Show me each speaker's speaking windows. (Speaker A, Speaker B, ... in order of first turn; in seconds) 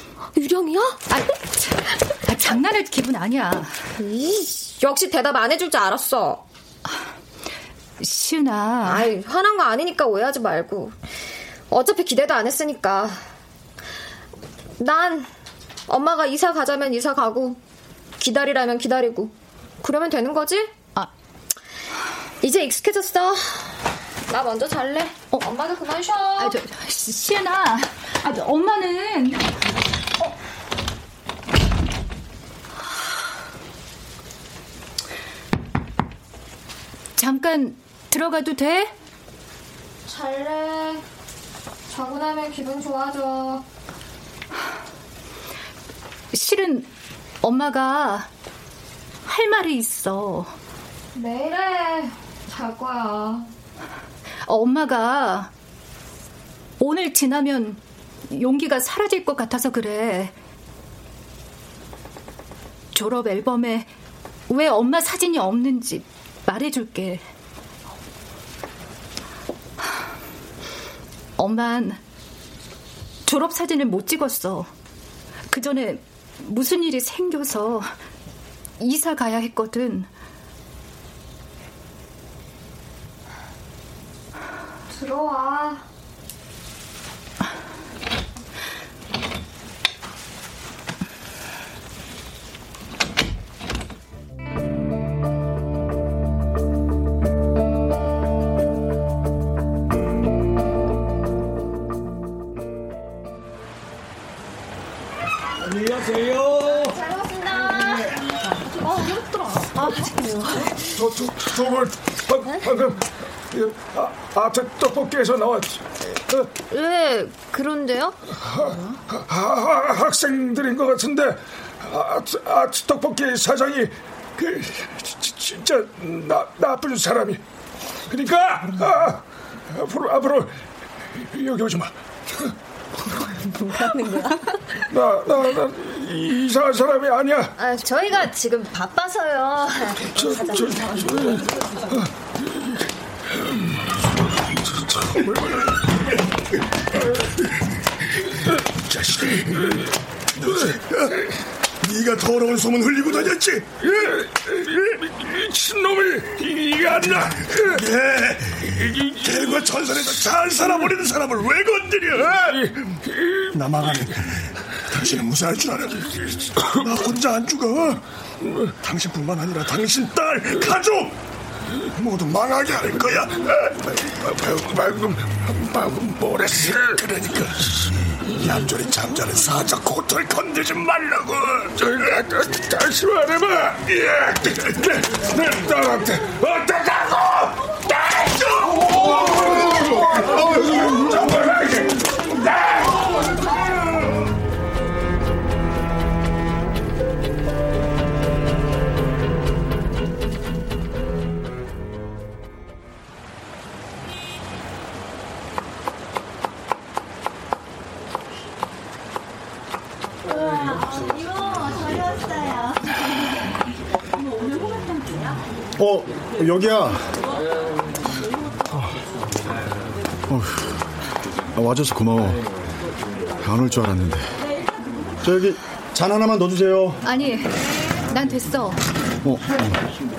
Speaker A: 0.3-1.0, 4.0-6.4, 8.8-10.9, 11.7-13.2, 14.8-15.3, 15.9-17.6, 18.2-20.7, 22.4-26.6, 40.0-41.0, 41.9-43.6, 51.1-53.5, 84.9-85.8, 106.9-110.7, 116.7-118.2, 133.4-134.6, 137.6-141.5
Speaker B: 1.1-3.7, 8.0-9.1, 26.4-29.5, 37.2-38.9, 46.3-46.9, 47.4-48.3, 49.2-50.5, 54.5-55.5, 56.8-60.3, 62.9-63.9, 64.5-67.2, 71.4-72.0, 73.2-74.7, 75.5-77.9, 78.8-80.1, 227.0-227.6, 228.1-228.8
Speaker C: 110.9-116.5, 118.5-127.4, 128.1-130.6, 131.2-132.5, 134.9-137.5, 140.2-141.4, 144.7-145.7, 148.8-149.9, 153.8-157.8, 158.8-159.7, 162.4-164.1, 173.7-177.8, 180.3-193.3
Speaker D: 150.5-151.2, 151.8-153.7, 157.7-162.6, 163.5-168.0, 168.8-171.1, 172.0-173.4, 177.2-177.7, 178.2-180.6
Speaker E: 215.8-217.0, 220.3-220.8, 221.5-222.4, 223.4-224.3, 225.2-226.9, 229.2-229.8